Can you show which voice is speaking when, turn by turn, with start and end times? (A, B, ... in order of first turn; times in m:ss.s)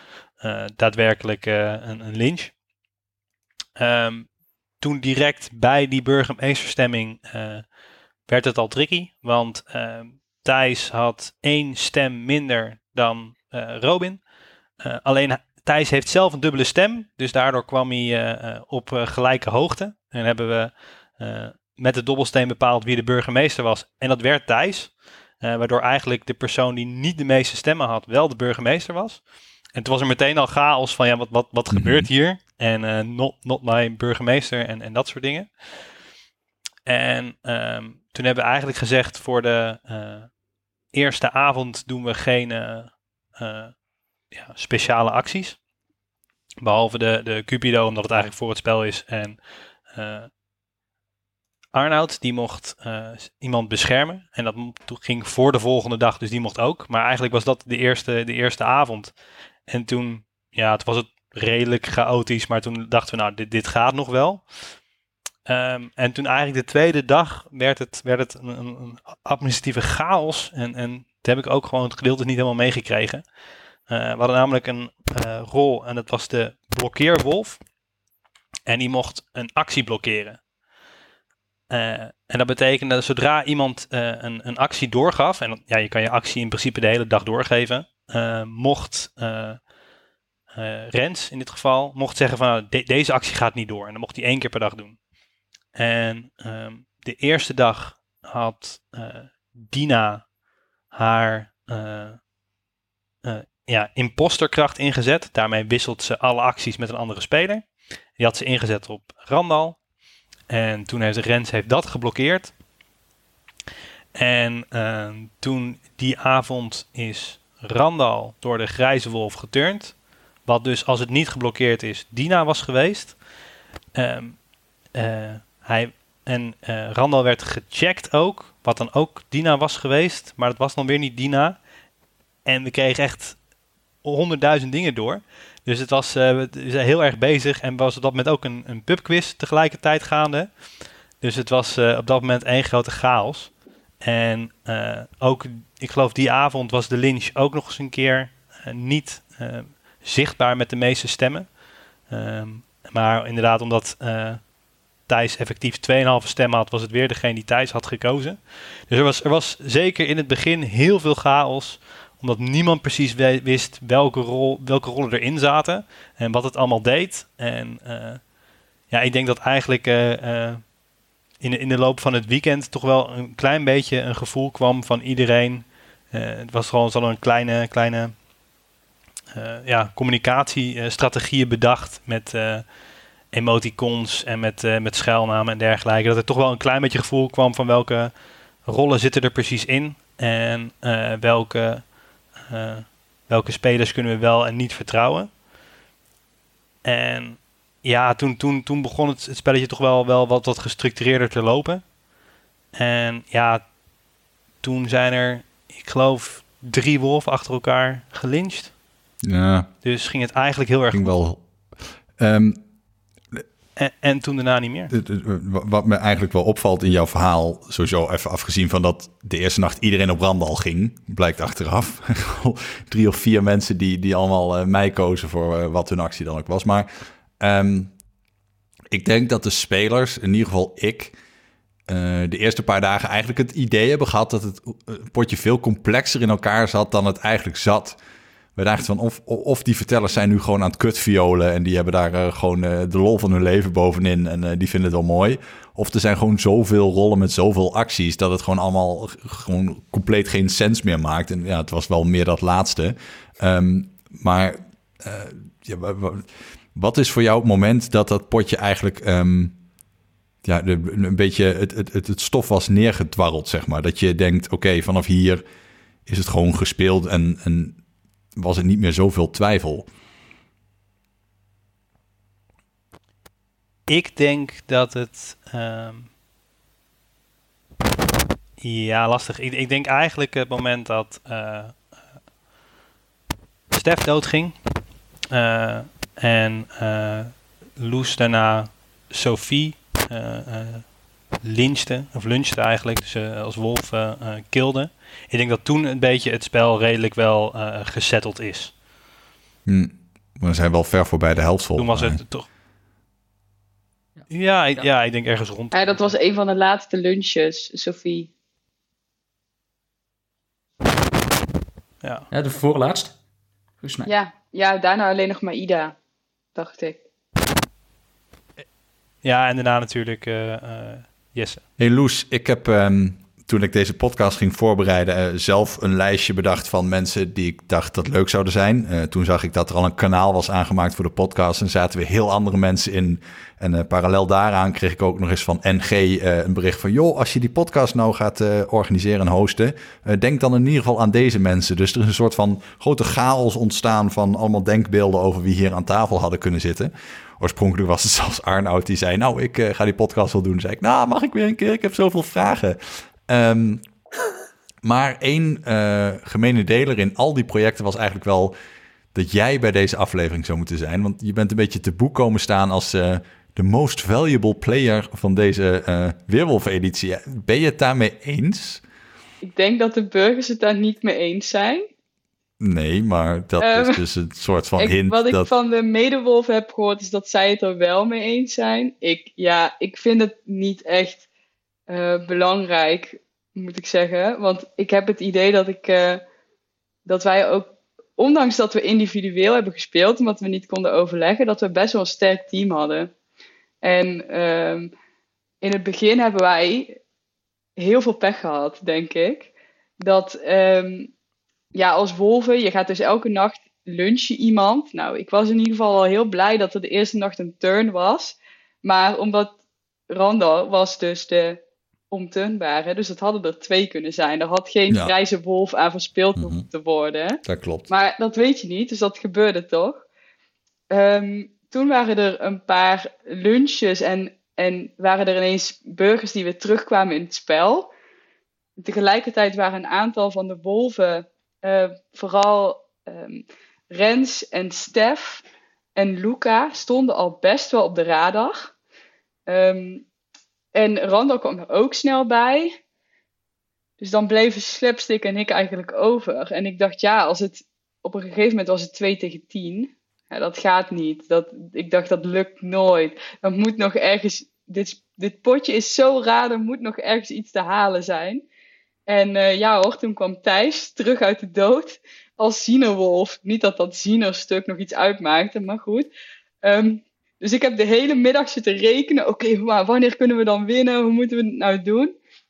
0:00.4-0:02.5 A
0:03.8-0:07.7 A
0:08.3-0:14.2 A
0:14.8-0:29.2 A
0:29.7-0:35.5 A
0:31.7-0:32.1 B
0:36.9-0:40.3 A
0:40.9-0:43.8 A
0:44.3-0:45.6 A
0:46.6-0:50.3 A
0:51.7-0:59.1 A
0:59.7-1:04.5 A
1:05.5-1:13.2 A
1:13.9-1:17.6 A
1:18.7-1:20.4 A
1:21.7-1:29.6 A
1:30.5-1:35.0 A
1:35.8-1:40.3 A
1:40.9-1:42.2 A
1:43.2-1:49.8 A
1:50.5-1:52.5 A
1:54.2-2:03.2 A
2:03.9-2:11.6 A
2:12.4-2:13.4 A
2:14.0-2:20.6 A
2:21.2-2:34.5 A
2:35.1-2:48.3 A
2:48.9-2:50.7 A
2:51.4-2:58.2 A
2:59.3-3:02.8 A
3:03.3-3:15.3 A
3:16.8-3:21.9 A
3:22.7-3:23.6 A
3:24.6-3:28.7 A
3:29.2-3:29.7 B
3:29.8-3:31.2 A
3:30.9-3:31.4 B
3:32.2-3:32.6 B
3:33.8-3:34.9 A
3:34.9-3:46.9 B
3:47.4-3:47.9 B
3:48.9-3:51.2 B
3:51.9-3:58.0 B
3:58.6-4:19.6 B
4:20.4-4:25.4 B
4:26.1-4:27.8 B
4:28.4-4:29.9 B
4:33.9-4:36.1 A
4:38.6-4:42.1 A
4:43.7-4:44.6 A
4:45.3-4:58.8 A
4:59.7-5:02.2 B
5:01.8-5:02.5 A
5:04.2-5:04.9 C
5:04.3-5:06.1 A
5:05.7-5:08.3 D
5:12.0-5:12.3 A
5:12.3-5:13.2 C
5:13.8-5:14.1 C
5:14.0-5:16.0 D
5:16.6-5:17.0 D
5:19.2-5:21.6 A
5:21.8-5:53.8 B
5:54.8-5:58.6 B
5:59.2-6:08.8 B
6:09.4-6:11.8 D
6:12.6-6:15.5 B
6:13.6-6:14.0 D
6:14.8-6:21.2 D
6:21.9-6:26.2 D
6:27.1-6:33.1 D
6:33.8-6:34.9 D
6:35.6-6:37.0 D
6:37.8-6:41.1 D
6:41.7-6:49.5 D
6:50.1-6:51.6 D
6:52.1-7:00.0 D
6:56.4-6:56.7 B
6:57.4-6:57.9 B
7:00.9-7:07.9 D
7:08.8-7:15.4 D
7:16.0-7:18.7 D
7:19.5-7:20.0 D
7:20.7-7:22.8 D
7:24.0-7:38.4 D
7:39.1-7:46.1 D
7:46.6-7:52.2 D